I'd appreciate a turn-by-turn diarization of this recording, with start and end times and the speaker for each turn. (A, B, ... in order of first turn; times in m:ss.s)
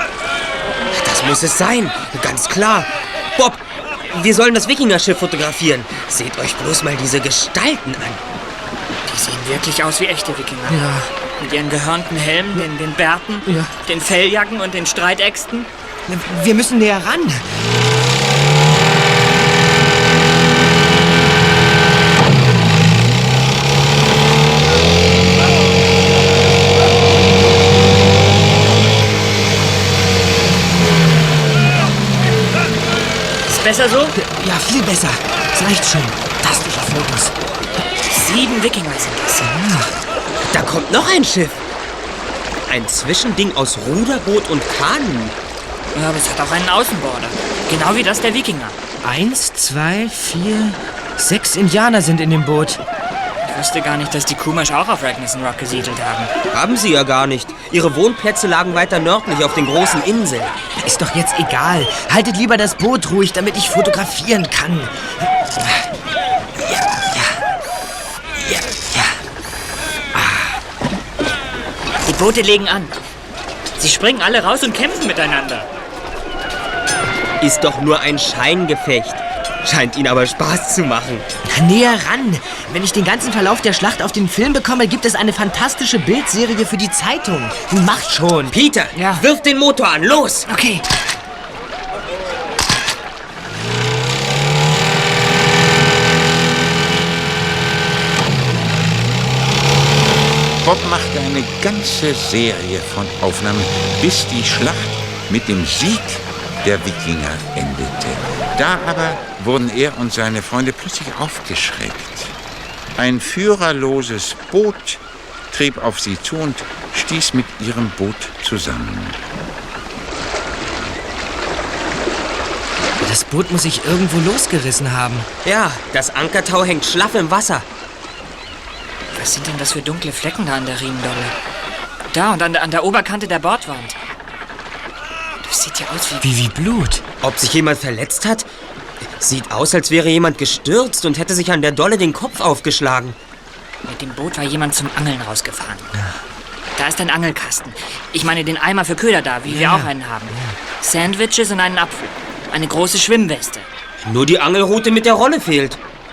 0:00.9-0:08.2 A
0:09.1-0:10.9 B
0:10.7-0:11.1 C
0:11.4-0:15.7 B
0:13.5-0:13.7 C
0:16.1-0:17.5 C
0:33.5-0:34.2 B
0:34.2-0:37.4 C
0:38.1-0:39.5 B
0:39.4-0:39.9 C
0:40.5-0:41.6 A
0:42.7-0:45.4 A
0:45.9-0:48.8 B
0:49.0-0:52.8 C
0:53.4-0:56.3 B
0:56.5-1:00.6 A
1:00.8-1:05.9 C
1:12.0-1:12.9 B
1:13.8-1:15.7 B
1:17.4-1:21.2 A
1:21.5-1:28.5 C
1:28.5-1:30.5 A
1:29.0-1:29.2 B
1:30.5-1:30.8 B
1:40.6-1:52.3 D
1:53.0-1:59.2 D
2:03.0-2:05.3 C
2:05.4-2:07.7 A
2:09.1-2:11.3 B
2:12.1-2:14.0 B
2:15.4-2:16.3 B
2:16.2-2:17.0 C
2:17.2-2:18.5 A
2:19.2-2:23.2 A
2:23.8-2:25.9 B
2:26.8-2:33.7 B
2:29.5-2:30.6 C
2:34.0-2:35.8 A